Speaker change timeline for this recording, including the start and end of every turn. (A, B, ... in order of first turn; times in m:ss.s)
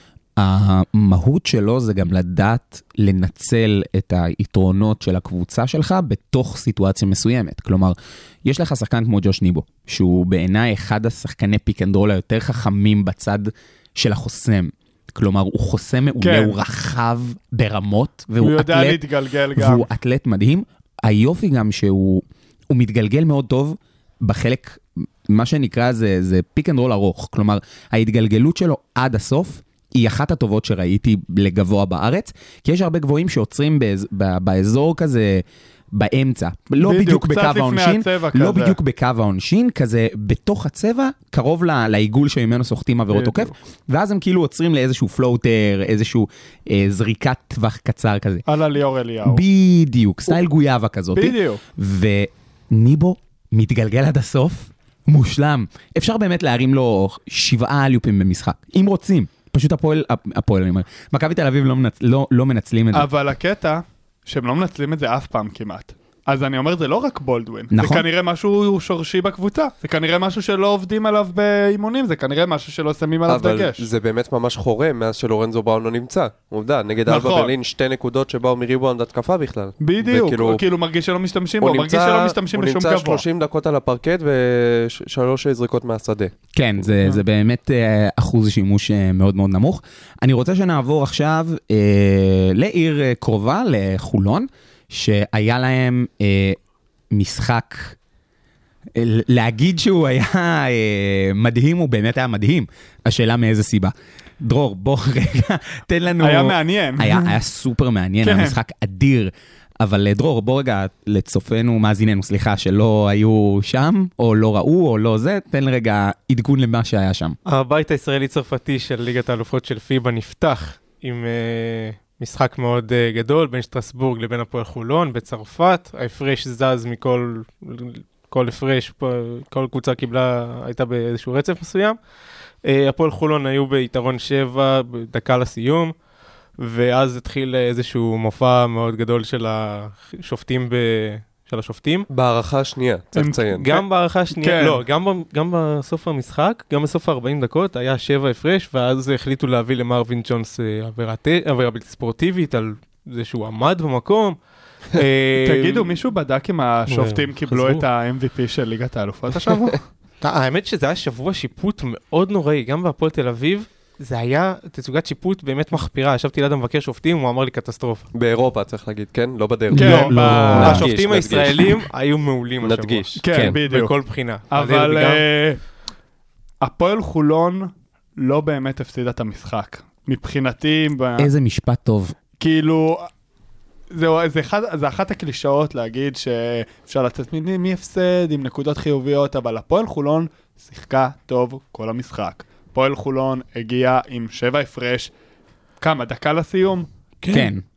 0:00.4-0:19.0 A
0:16.2-0:16.5 B
0:18.4-0:19.8 B
0:19.6-0:48.4 A
0:36.8-0:38.8 B
0:43.1-0:43.5 B
0:48.4-0:49.4 B
0:49.2-1:03.1 A
0:51.1-0:51.6 B
1:02.9-1:13.8 B
1:07.7-1:08.0 A
1:13.3-1:20.6 C
1:17.1-1:17.5 B
1:19.8-1:23.2 B
1:21.6-1:26.3 C
1:26.5-1:36.6 A
1:37.1-1:38.0 A
1:38.9-1:57.4 A
1:46.2-1:47.3 B
1:48.2-1:48.6 B
1:57.5-2:12.0 D
2:12.6-2:15.9 D
2:16.6-2:22.1 D
2:22.1-2:23.7 C
2:23.1-2:24.8 B
2:23.5-2:34.4 D
2:34.9-2:36.0 D
2:35.4-2:39.8 B
2:36.9-2:37.9 D
2:40.2-2:48.1 D
2:48.1-2:51.5 C
2:49.7-2:50.9 A
2:49.7-2:50.8 B
2:50.2-2:55.2 D
2:52.6-2:53.1 C
2:53.2-2:53.9 B
2:53.3-2:53.6 A
2:54.5-2:55.6 B
2:56.6-3:01.3 B
3:01.2-3:02.1 A
3:02.4-3:03.1 B
3:03.9-3:15.1 B
3:15.8-3:16.9 B
3:17.2-3:17.5 D
3:17.3-3:17.6 A